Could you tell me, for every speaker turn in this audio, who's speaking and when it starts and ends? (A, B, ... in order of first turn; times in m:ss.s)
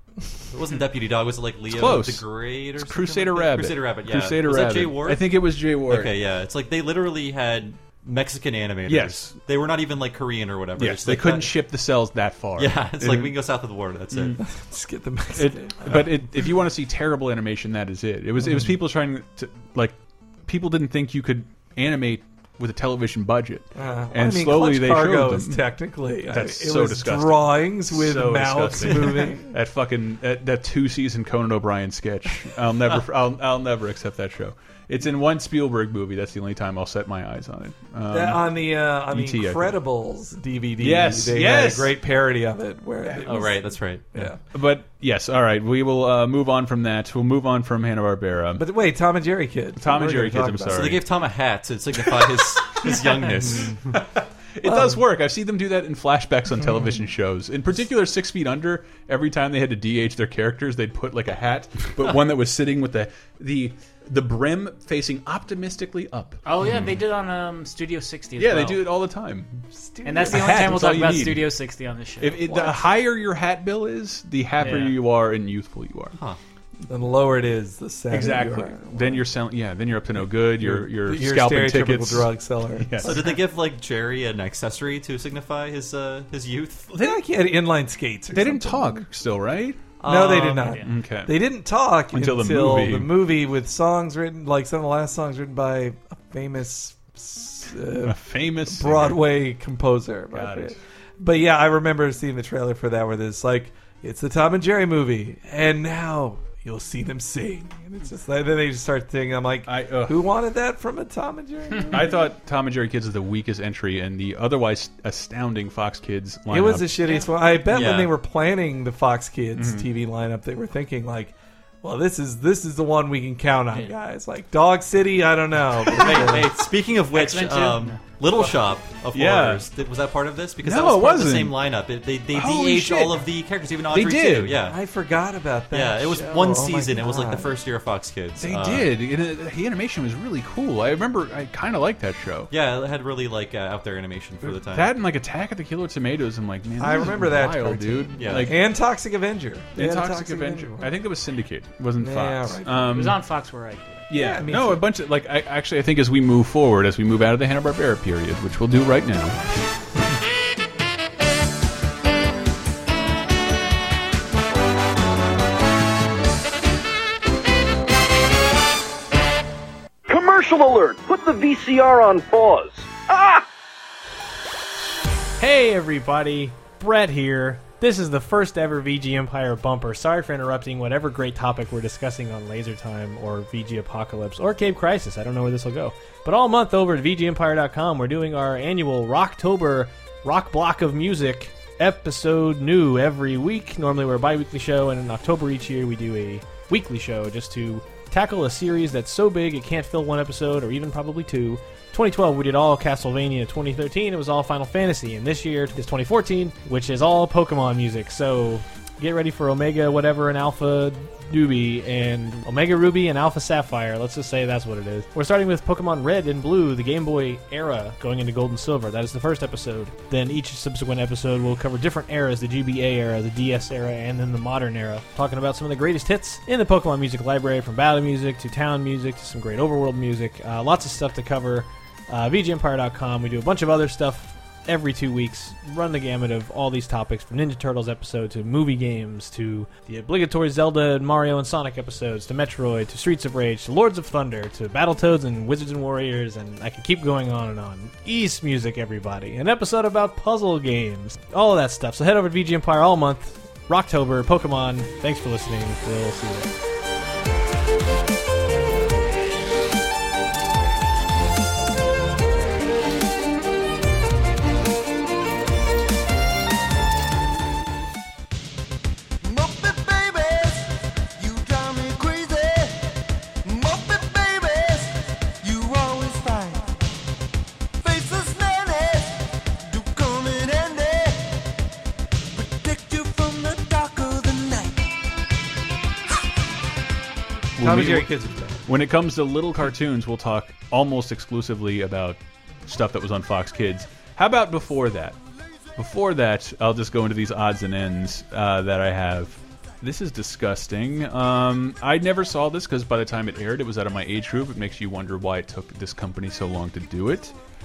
0:00.5-0:05.3 A
0:01.7-0:02.2 B
0:02.8-0:06.1 B
0:05.8-0:11.6 A
0:08.8-0:09.4 B
0:10.8-0:13.4 B
0:12.6-0:14.4 A
0:14.1-0:14.4 B
0:14.4-0:16.2 C
0:15.3-0:25.6 B
0:18.4-0:18.7 C
0:23.8-0:29.5 C
0:26.3-0:39.8 B
0:38.1-0:44.4 C
0:40.8-0:41.9 B
0:43.2-0:44.0 A
0:44.1-0:48.6 B
0:48.6-0:51.0 C
0:49.8-0:51.0 B
0:50.7-0:54.0 A
0:52.1-1:06.4 B
0:53.4-0:53.8 C
0:54.6-0:55.0 C
0:56.6-0:57.0 C
1:06.4-1:08.8 D
1:08.4-1:09.6 B
1:09.7-1:10.8 C
1:10.0-1:12.7 D
1:10.2-1:11.5 B
1:12.2-1:16.2 B
1:14.6-1:15.0 D
1:16.9-1:19.3 C
1:18.1-1:23.2 B
1:20.3-1:23.3 C
1:23.0-1:26.9 A
1:26.9-1:29.0 C
1:28.3-1:29.9 B
1:30.0-1:52.1 C
1:30.0-1:30.7 A
1:30.5-1:30.9 D
1:30.8-1:31.4 B
1:32.1-1:33.1 B
1:38.0-1:39.2 B
1:40.3-1:40.8 B
1:49.6-1:50.3 B
1:51.8-1:57.2 B
1:56.5-2:06.5 C
1:57.7-1:58.1 A
1:59.5-1:59.9 B
2:05.9-2:14.8 A
2:07.1-2:08.0 D
2:09.1-2:09.6 B
2:10.6-2:11.6 B
2:12.3-2:13.3 B
2:13.9-2:14.6 B
2:14.6-2:17.5 C
2:15.7-2:18.9 A
2:18.4-2:22.5 B
2:22.5-2:24.9 A
2:24.4-2:28.6 B
2:26.8-2:30.9 C
2:28.2-2:28.5 A
2:29.8-2:33.2 B
2:32.0-2:33.1 C
2:32.9-2:34.1 D
2:34.1-2:39.4 B
2:34.1-2:34.8 C
2:50.1-2:53.4 E
2:55.4-4:16.5 F
4:29.2-4:36.8 G
4:37.8-4:41.5 G
4:42.3-4:44.8 G
4:47.6-4:48.1 B
4:47.6-4:48.6 C
4:48.6-4:55.2 B
4:55.8-5:07.3 B